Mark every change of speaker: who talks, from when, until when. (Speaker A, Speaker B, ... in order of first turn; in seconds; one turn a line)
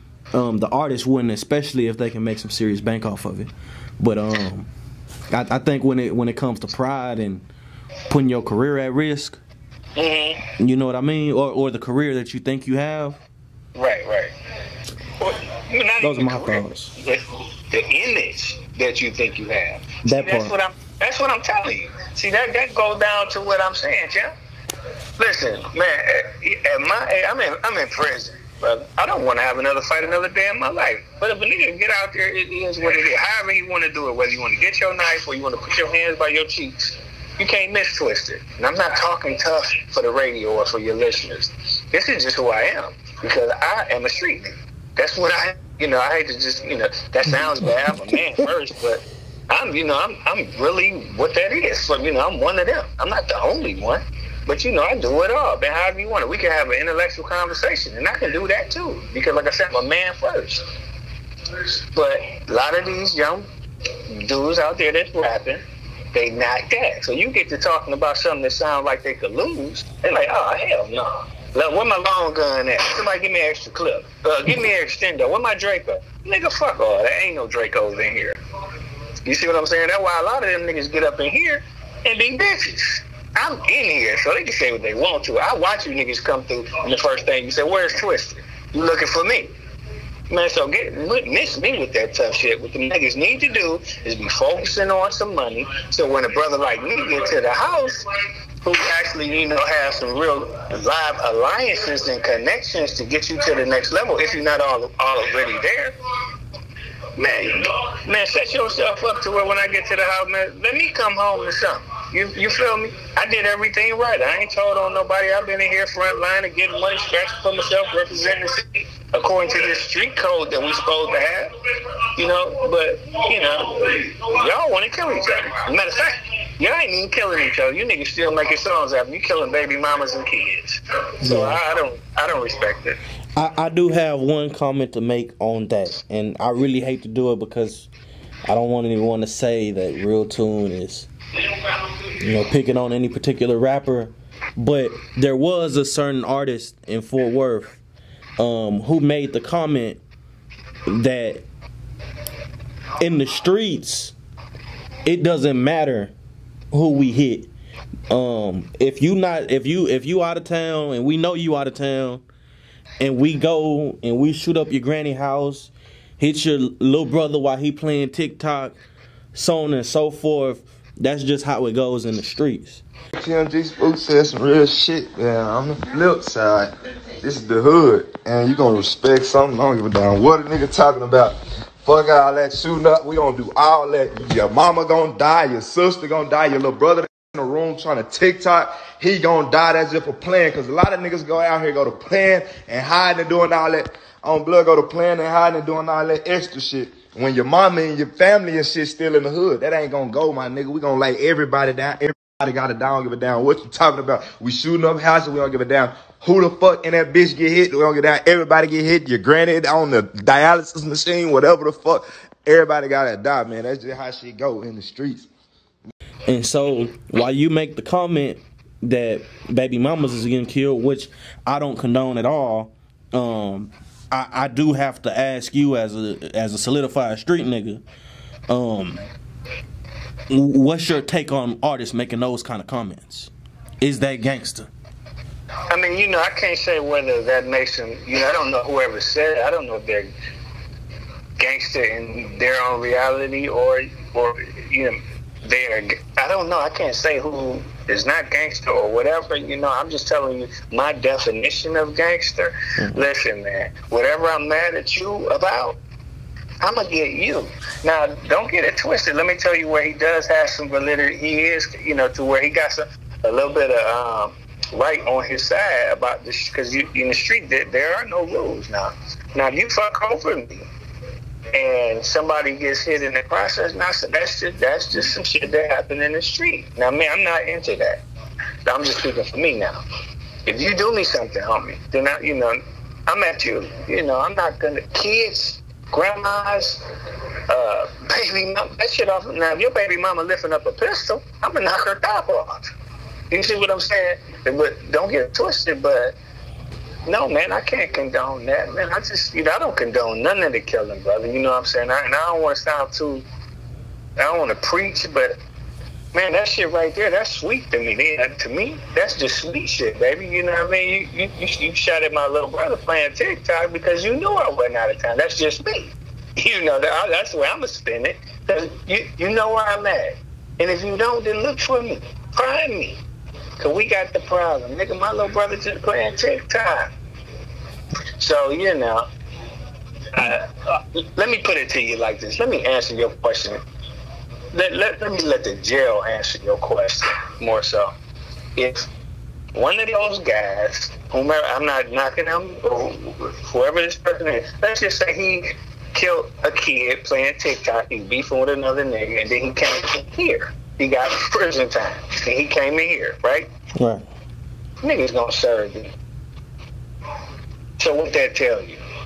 Speaker A: 0.3-4.7
Speaker A: 5.3-7.5
Speaker A: 8.1-9.4
Speaker B: 9.9-10.4
Speaker A: 10.6-13.2
Speaker B: 13.7-14.3
Speaker B: 15.2-17.2
Speaker A: 16.0-16.9
Speaker B: 17.7-24.3
Speaker A: 20.0-20.5
Speaker B: 25.2-60.6
Speaker A: 47.3-48.3
Speaker B: 61.9-63.5
Speaker B: 64.1-65.6
Speaker B: 66.1-78.3
Speaker B: 79.2-89.5
Speaker B: 90.3-98.0
Speaker B: 98.6-105.9
Speaker B: 107.2-121.5
Speaker B: 122.2-133.0
Speaker A: 131.2-131.6
Speaker A: 133.3-137.9
Speaker A: 138.4-141.1
Speaker A: 142.2-147.8
Speaker A: 148.4-150.0
Speaker A: 150.9-151.4
Speaker A: 153.0-154.1
Speaker A: 155.0-156.1
Speaker A: 156.7-157.5
Speaker A: 158.1-162.2
Speaker A: 163.0-168.8
Speaker A: 169.3-172.8
Speaker C: 173.1-176.7
Speaker C: 177.2-215.3
Speaker A: 216.3-227.8
Speaker A: 228.5-229.0
Speaker A: 230.3-234.7
Speaker B: 235.7-240.1
Speaker B: 241.4-255.8
Speaker B: 256.6-270.7
Speaker B: 271.5-278.0
Speaker B: 278.6-279.8
Speaker B: 280.4-286.8
Speaker B: 287.5-292.7
Speaker B: 293.3-296.2
Speaker B: 297.1-303.2
Speaker B: 304.2-305.4
Speaker B: 306.1-323.0
Speaker B: 323.6-326.9
Speaker B: 328.2-329.1
Speaker B: 330.1-333.6
Speaker B: 334.5-337.9
Speaker B: 338.6-338.9
Speaker B: 339.5-353.5
Speaker A: 353.8-354.0
Speaker B: 354.8-355.9
Speaker B: 357.8-358.8